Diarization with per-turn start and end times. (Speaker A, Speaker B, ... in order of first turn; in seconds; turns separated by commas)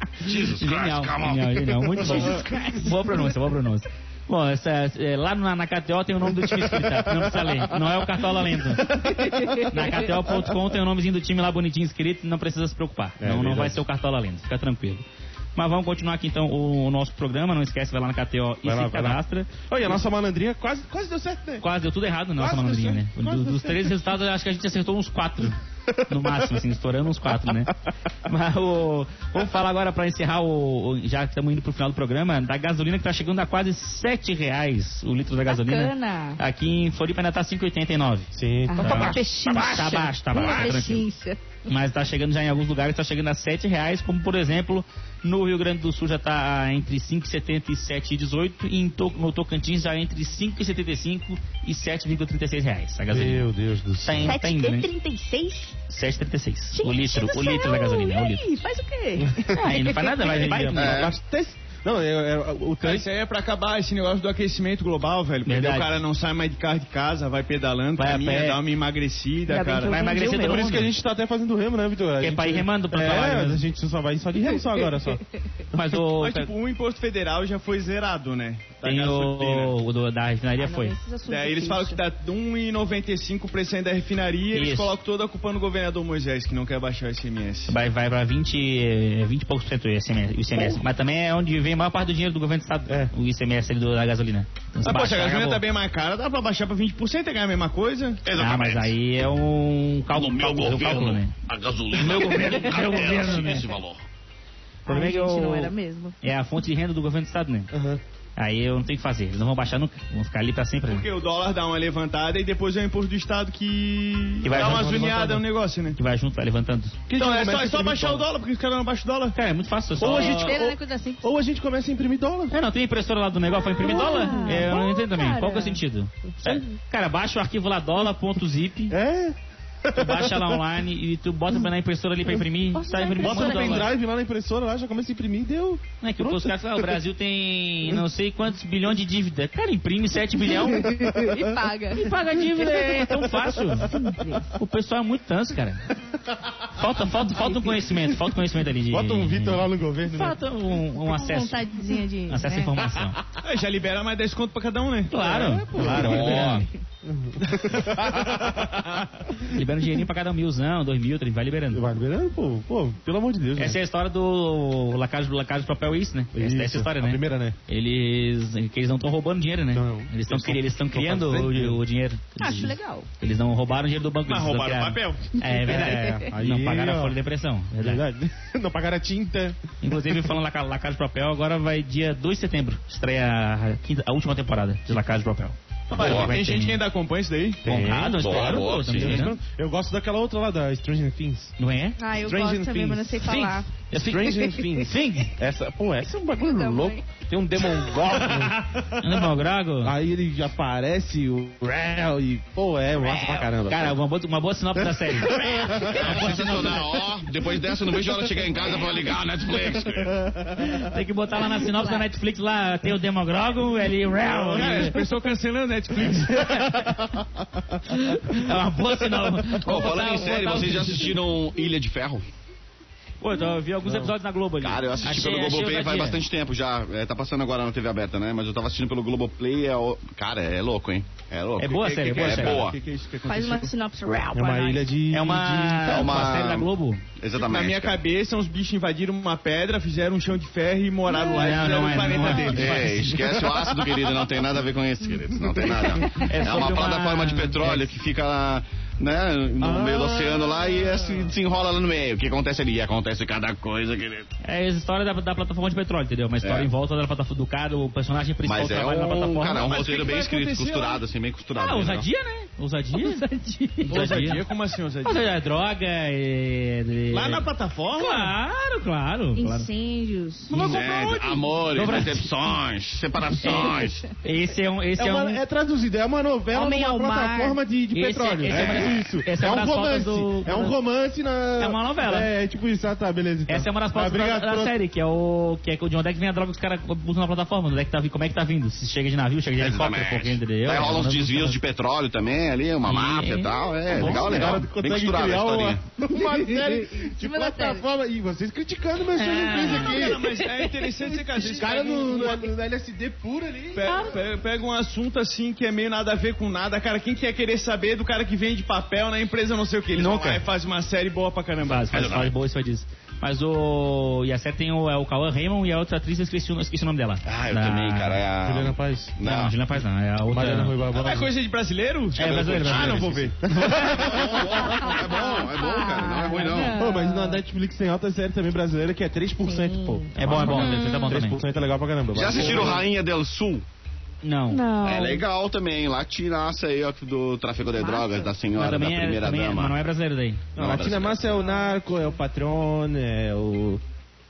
Speaker A: 0.2-2.5, Speaker B: 0.2-15.0, Speaker C: 2.4-2.8, Speaker D: 6.4-7.6, Speaker D: 9.0-9.6, Speaker D: 13.2-13.8, Speaker B: 15.6-20.0, Speaker D: 18.6-21.6, Speaker B: 21.6-41.1, Speaker D: 22.4-24.0, Speaker D: 25.9-26.6, Speaker D: 27.2-27.8, Speaker C: 35.5-36.4, Speaker D: 38.3-39.1, Speaker C: 38.7-41.4, Speaker B: 41.7-53.5, Speaker D: 53.1-54.4, Speaker B: 54.0-54.9, Speaker C: 54.2-55.7, Speaker B: 55.9-58.4, Speaker C: 56.7-60.3, Speaker D: 59.2-59.6, Speaker B: 59.6-61.1, Speaker D: 60.2-63.1, Speaker A: 60.7-61.1, Speaker E: 62.8-69.9, Speaker B: 65.5-66.0, Speaker B: 68.0-68.6, Speaker C: 69.5-70.7, Speaker B: 69.8-70.9, Speaker D: 70.2-75.2, Speaker B: 72.2-73.6, Speaker B: 75.7-76.5, Speaker E: 76.2-79.7, Speaker B: 78.8-81.0, Speaker C: 80.6-82.0, Speaker E: 81.2-87.8, Speaker B: 84.5-84.9, Speaker B: 87.7-95.6, Speaker D: 90.5-90.8, Speaker D: 92.9-93.1, Speaker E: 94.8-98.2, Speaker A: 98.2-98.9, Speaker B: 98.3-101.3, Speaker A: 100.1-104.0, Speaker B: 101.9-103.7, Speaker C: 104.8-106.2, Speaker B: 104.9-107.7, Speaker D: 107.7-108.0, Speaker B: 108.4-111.1, Speaker E: 110.8-116.0, Speaker B: 114.4-117.0, Speaker D: 114.6-114.9, Speaker D: 117.1-118.3, Speaker E: 117.2-119.3, Speaker B: 119.3-120.6, Speaker D: 120.0-122.5, Speaker C: 120.0-121.2, Speaker B: 122.5-129.0, Speaker C: 123.5-125.8, Speaker D: 128.9-130.6, Speaker B: 129.9-133.9, Speaker C: 132.7-133.9, Speaker D: 133.2-137.0, Speaker B: 136.0-141.1, Speaker C: 140.5-143.0, Speaker D: 141.1-141.4, Speaker B: 141.9-144.0, Speaker C: 143.9-144.5, Speaker B: 144.5-145.8, Speaker B: 146.7-151.7, Speaker D: 148.9-150.4, Speaker C: 151.0-152.8, Speaker B: 152.3-153.2, Speaker E: 153.4-155.1, Speaker B: 155.1-156.7, Speaker D: 155.2-159.5, Speaker A: 155.8-156.7, Speaker B: 159.5-161.8, Speaker D: 161.7-163.8, Speaker B: 163.6-178.0, Speaker D: 166.3-167.6, Speaker D: 169.7-171.8, Speaker C: 172.4-173.1, Speaker E: 174.2-175.3, Speaker D: 175.6-177.2, Speaker D: 177.8-179.6, Speaker B: 179.8-186.8, Speaker E: 185.9-187.6, Speaker A: 186.0-186.3, Speaker D: 187.6-191.5, Speaker B: 187.6-189.4, Speaker A: 188.0-189.2, Speaker B: 191.6-192.0, Speaker C: 192.0-193.7, Speaker D: 192.2-193.3, Speaker B: 193.2-195.3, Speaker D: 193.9-199.3, Speaker C: 196.4-197.0, Speaker B: 197.9-199.9, Speaker D: 199.8-204.0, Speaker A: 203.1-203.4, Speaker B: 203.7-206.9, Speaker D: 204.8-206.5, Speaker A: 205.9-210.2, Speaker D: 209.8-210.9, Speaker B: 210.6-215.0, Speaker C: 211.5-212.1, Speaker D: 214.2-214.9, Speaker E: 214.4-216.8, Speaker B: 216.1-217.0, Speaker D: 217.1-218.4, Speaker B: 217.9-221.2, Speaker A: 219.5-222.2, Speaker B: 223.2-226.2, Speaker D: 223.8-224.1, Speaker A: 224.6-232.8, Speaker B: 231.6-232.7, Speaker E: 231.7-233.7, Speaker C: 233.2-234.8, Speaker D: 234.3-236.3, Speaker B: 235.1-237.0, Speaker A: 235.9-236.7, Speaker A: 237.2-238.0, Speaker E: 237.3-242.8, Speaker C: 241.1-241.6, Speaker B: 241.2-243.5, Speaker A: 242.5-254.3, Speaker B: 246.1-247.9, Speaker D: 249.6-251.3, Speaker B: 254.4-259.7, Speaker A: 256.4-256.7, Speaker A: 258.4-262.1, Speaker E: 259.6-261.0, Speaker B: 261.6-263.3, Speaker C: 262.9-264.0, Speaker B: 263.8-264.4, Speaker E: 263.9-265.3, Speaker B: 265.0-269.7, Speaker E: 267.1-268.3, Speaker C: 269.4-270.6, Speaker B: 270.5-270.8, Speaker E: 270.5-271.2, Speaker A: 270.5-274.1, Speaker B: 271.7-272.3, Speaker B: 273.4-275.4, Speaker C: 273.4-273.9, Speaker D: 275.0-284.7, Speaker C: 276.5-277.6, Speaker B: 277.9-280.8, Speaker A: 278.5-279.0, Speaker B: 281.6-282.3, Speaker B: 283.5-291.6, Speaker A: 289.6-295.8, Speaker B: 292.8-294.6, Speaker D: 293.9-300.3, Speaker C: 296.2-297.8, Speaker B: 299.1-300.0, Speaker E: 299.7-302.5, Speaker C: 300.1-301.7, Speaker D: 301.4-304.1, Speaker E: 303.7-312.2, Speaker C: 303.9-304.2, Speaker B: 309.9-310.4, Speaker B: 311.6-318.2, Speaker A: 311.9-312.3, Speaker A: 317.2-319.5, Speaker D: 318.4-319.1, Speaker B: 319.2-320.7, Speaker D: 320.3-321.3, Speaker E: 320.9-323.8, Speaker B: 322.1-323.8, Speaker A: 322.2-323.0, Speaker D: 323.0-324.6, Speaker A: 323.7-326.8, Speaker C: 324.4-327.4, Speaker B: 326.3-326.8, Speaker D: 326.7-332.9, Speaker C: 329.4-331.2, Speaker B: 330.1-331.4, Speaker A: 332.1-333.6, Speaker B: 334.2-334.6, Speaker C: 334.5-335.2, Speaker A: 334.8-339.8, Speaker C: 337.8-338.3, Speaker B: 338.5-340.4, Speaker A: 340.6-341.6, Speaker D: 340.6-343.8